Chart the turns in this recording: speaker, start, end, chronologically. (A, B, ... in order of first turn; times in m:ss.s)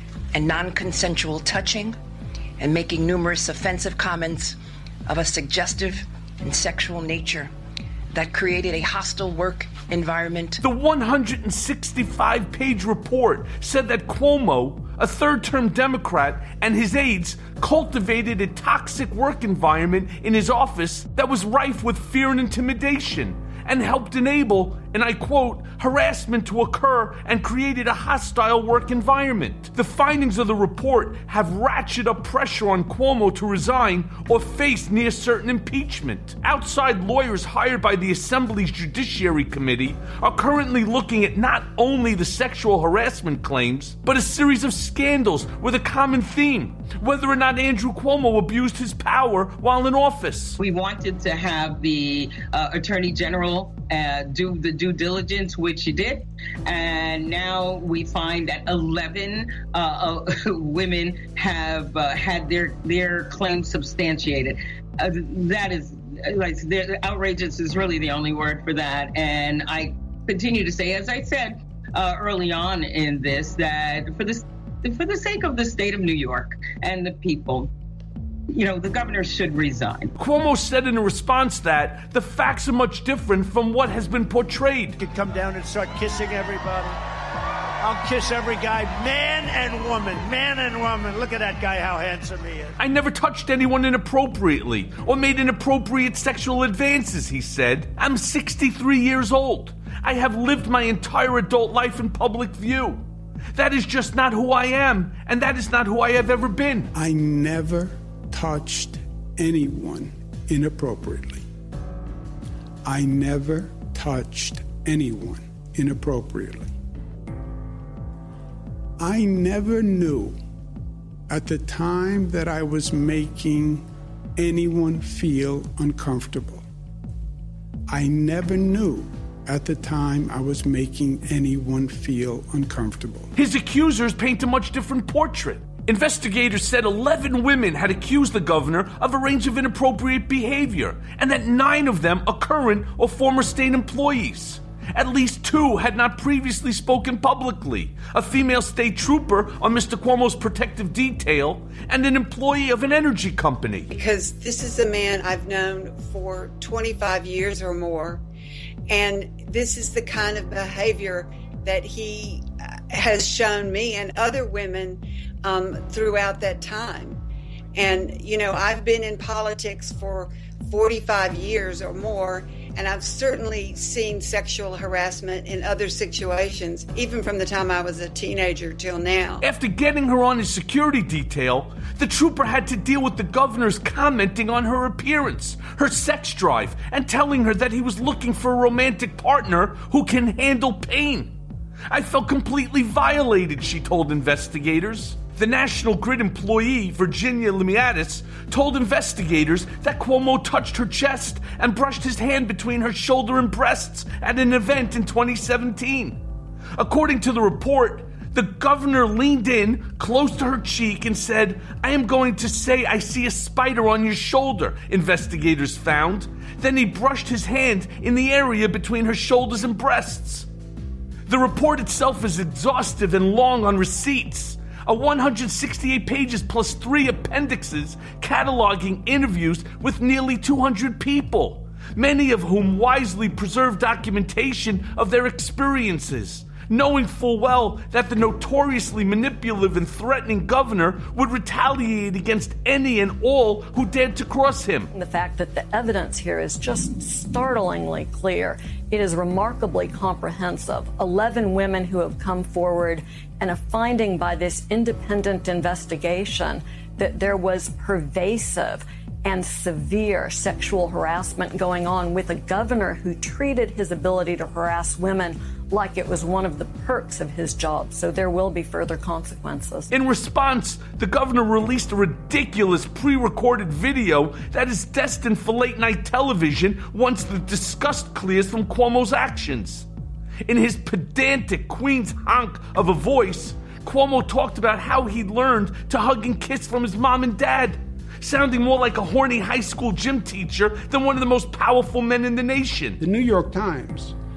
0:00.3-0:02.0 A
0:02.6-0:07.5 A
0:08.1-0:10.6 A
0:10.6-0:50.6 B
0:50.6-1:17.7 C
1:18.5-1:20.1 C
1:20.2-1:25.0 B
1:25.0-1:27.0 D
1:27.8-1:32.7 D
1:32.8-1:46.9 B
1:46.9-1:51.4 E
1:52.8-1:56.7 E
1:59.0-2:00.4 E
2:01.3-2:03.8 E
2:04.4-2:06.6 E
2:07.9-2:13.3 E
2:13.3-2:33.9 B
2:33.9-2:38.2 F
2:38.9-2:47.2 F
2:47.7-2:59.4 F
2:59.4-3:11.3 B
3:11.9-3:26.2 B
3:26.7-3:40.5 B
3:41.3-4:04.9 B
4:04.9-4:29.9 G
4:29.9-4:39.9 B
4:40.4-4:53.0 B
4:53.0-4:54.2 E